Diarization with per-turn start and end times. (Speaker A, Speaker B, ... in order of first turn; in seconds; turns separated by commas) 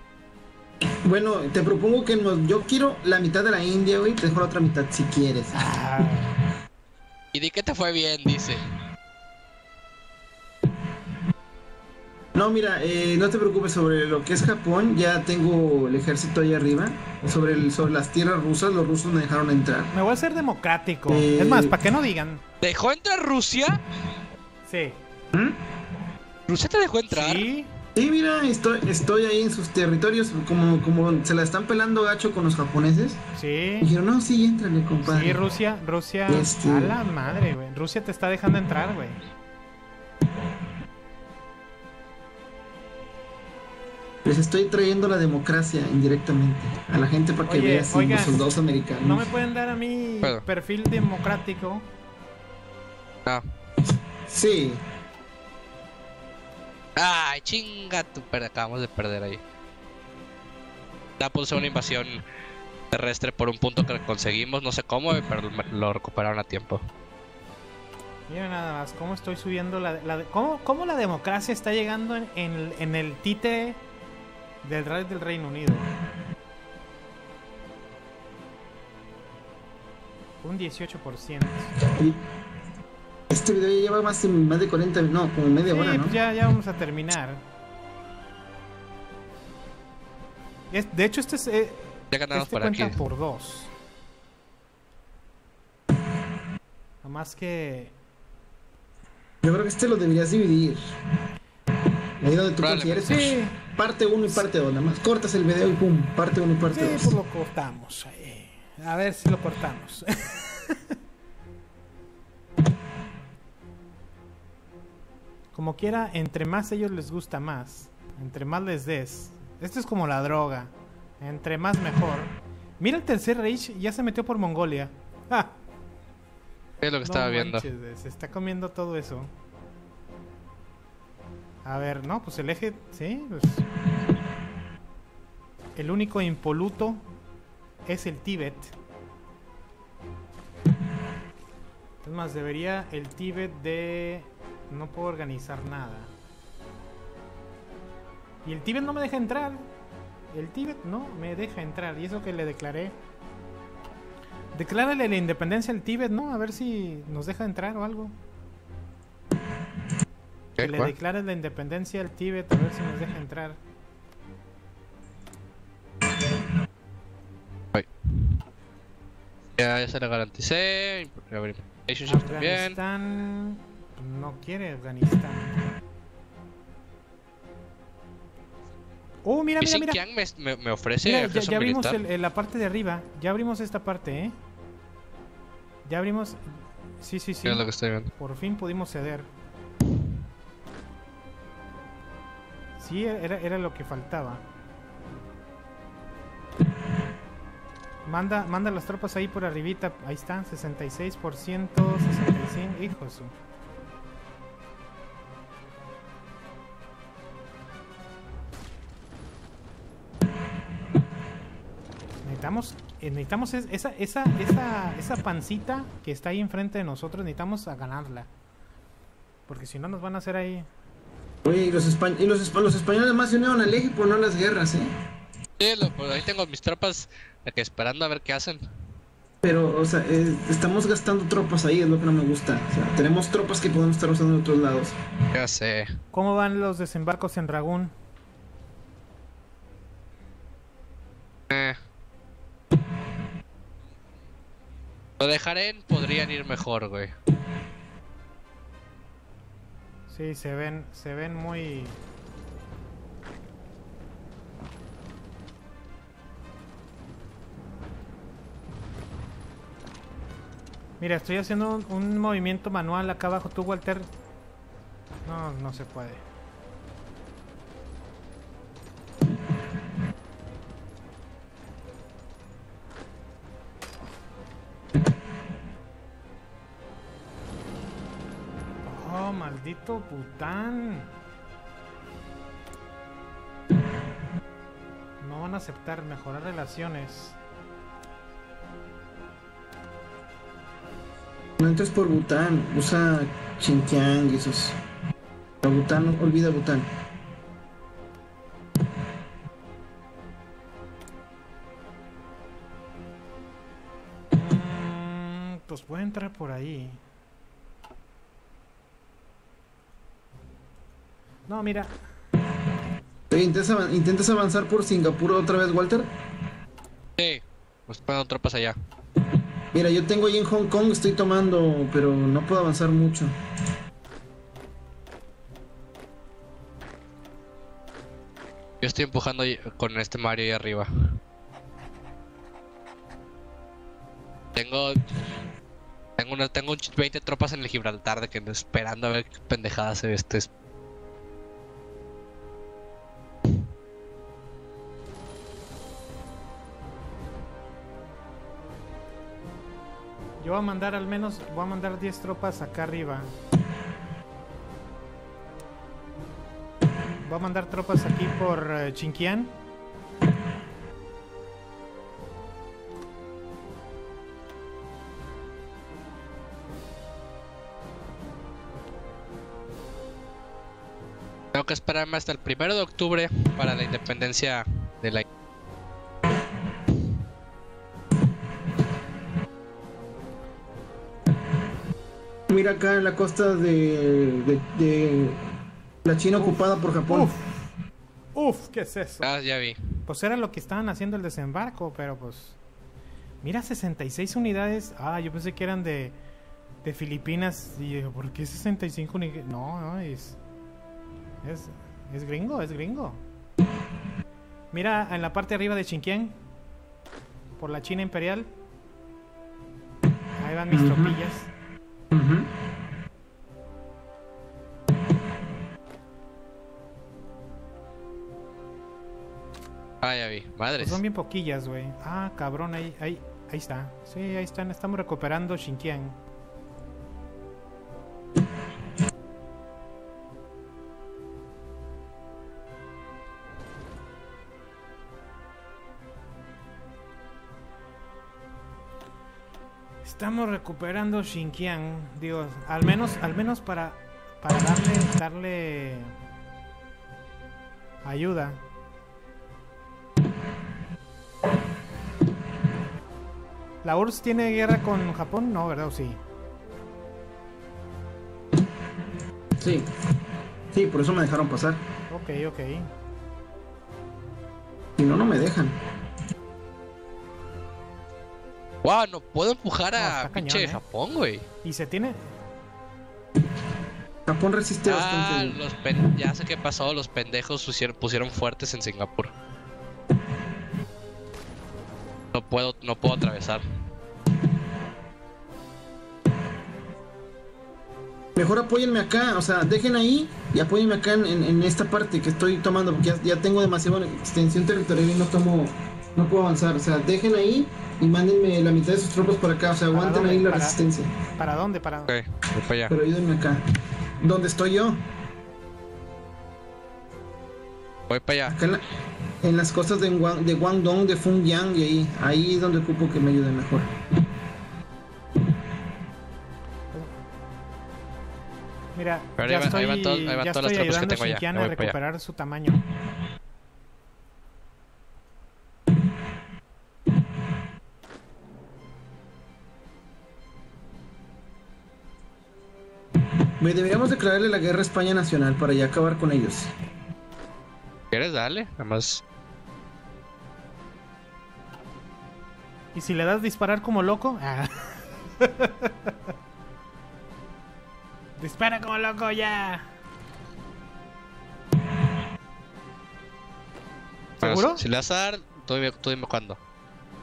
Speaker A: 1.0-5.7, Speaker B: 5.5-6.3, Speaker C: 7.3-8.7, Speaker A: 12.3-19.9, Speaker B: 19.9-22.4, Speaker A: 21.1-21.8, Speaker C: 22.6-23.8, Speaker B: 24.6-25.0, Speaker A: 25.3-25.6, Speaker C: 26.5-27.5, Speaker B: 27.1-27.7, Speaker A: 27.9-33.2, Speaker B: 33.4-33.9, Speaker A: 33.8-35.4, Speaker B: 35.0-39.2, Speaker A: 36.3-37.0, Speaker A: 44.2-49.3, Speaker B: 47.5-48.5, Speaker B: 49.0-51.9, Speaker A: 54.3-54.8, Speaker C: 57.0-59.4, Speaker C: 61.2-62.2, Speaker C: 62.9-66.8, Speaker B: 68.3-73.8, Speaker B: 74.6-75.9, Speaker B: 80.4-81.7, Speaker A: 81.9-82.2, Speaker A: 83.3-86.2, Speaker B: 85.7-87.4, Speaker B: 90.7-93.7, Speaker C: 92.1-93.0, Speaker B: 97.0-97.9, Speaker A: 99.4-100.8, Speaker A: 102.2-107.1, Speaker C: 102.6-103.2, Speaker B: 103.0-103.6, Speaker B: 106.7-110.9, Speaker B: 115.5-125.5, Speaker C: 126.8-127.7, Speaker B: 127.0-129.3, Speaker B: 131.6-133.6, Speaker B: 135.8-137.0, Speaker B: 137.8-138.7, Speaker B: 142.0-146.1, Speaker B: 148.4-149.6, Speaker B: 150.3-152.9, Speaker B: 154.5-158.1, Speaker C: 160.6-160.9, Speaker B: 160.6-163.6, Speaker C: 167.7-168.4, Speaker C: 169.6-172.8, Speaker B: 172.1-175.6, Speaker B: 179.2-180.0, Speaker C: 179.6-182.0, Speaker B: 181.0-184.3, Speaker B: 185.8-187.6, Speaker C: 187.4-188.1, Speaker B: 188.2-189.3, Speaker B: 192.8-194.4, Speaker B: 198.1-203.3, Speaker B: 212.2-218.3, Speaker B: 219.5-220.7, Speaker A: 221.4-224.9, Speaker C: 225.6-228.6, Speaker A: 229.4-234.9, Speaker C: 235.3-236.0, Speaker B: 236.1-237.9, Speaker C: 241.5-241.8, Speaker C: 245.2-247.1, Speaker B: 250.1-252.0, Speaker B: 261.0-264.1, Speaker B: 265.2-266.2, Speaker B: 278.8-281.1, Speaker B: 285.2-287.4, Speaker A: 291.6-294.8, Speaker A: 295.6-296.9, Speaker B: 304.3-307.0, Speaker B: 311.5-311.9, Speaker A: 313.3-316.1, Speaker C: 317.2-318.8, Speaker A: 319.7-323.3, Speaker C: 328.8-330.9, Speaker C: 334.5-335.0, Speaker C: 336.2-340.5, Speaker B: 350.4-353.3, Speaker B: 357.2-359.5, Speaker C: 371.5-375.2, Speaker A: 382.5-385.4, Speaker A: 386.0-387.3, Speaker B: 386.4-387.5, Speaker B: 388.3-389.3, Speaker C: 389.2-389.8, Speaker B: 390.1-392.6, Speaker B: 393.4-396.1, Speaker B: 396.8-400.4, Speaker B: 401.4-403.2, Speaker B: 404.7-406.4, Speaker B: 407.6-408.5, Speaker B: 410.4-411.5, Speaker A: 410.7-411.2, Speaker A: 412.1-412.5, Speaker C: 420.0-421.0, Speaker B: 420.8-426.2, Speaker B: 440.0-446.1, Speaker B: 448.0-448.6, Speaker B: 453.8-456.2, Speaker A: 459.6-459.9, Speaker A: 460.7-461.8, Speaker B: 462.1-462.9, Speaker A: 465.0-465.8, Speaker C: 468.8-471.4, Speaker B: 470.0-470.8, Speaker B: 471.6-472.4, Speaker A: 474.3-475.6, Speaker C: 474.9-479.3, Speaker C: 482.3-483.6, Speaker A: 488.4-501.1, Speaker B: 499.9-500.8, Speaker B: 501.4-502.1, Speaker C: 502.1-502.9, Speaker A: 502.9-503.6, Speaker A: 504.2-505.0, Speaker C: 508.1-508.5, Speaker A: 508.5-508.8, Speaker A: 509.4-513.9, Speaker B: 518.9-522.8, Speaker C: 519.4-521.9, Speaker A: 533.6-536.7, Speaker C: 538.1-539.2, Speaker B: 542.9-546.1, Speaker B: 548.4-549.9, Speaker B: 554.4-554.8, Speaker C: 554.4-556.6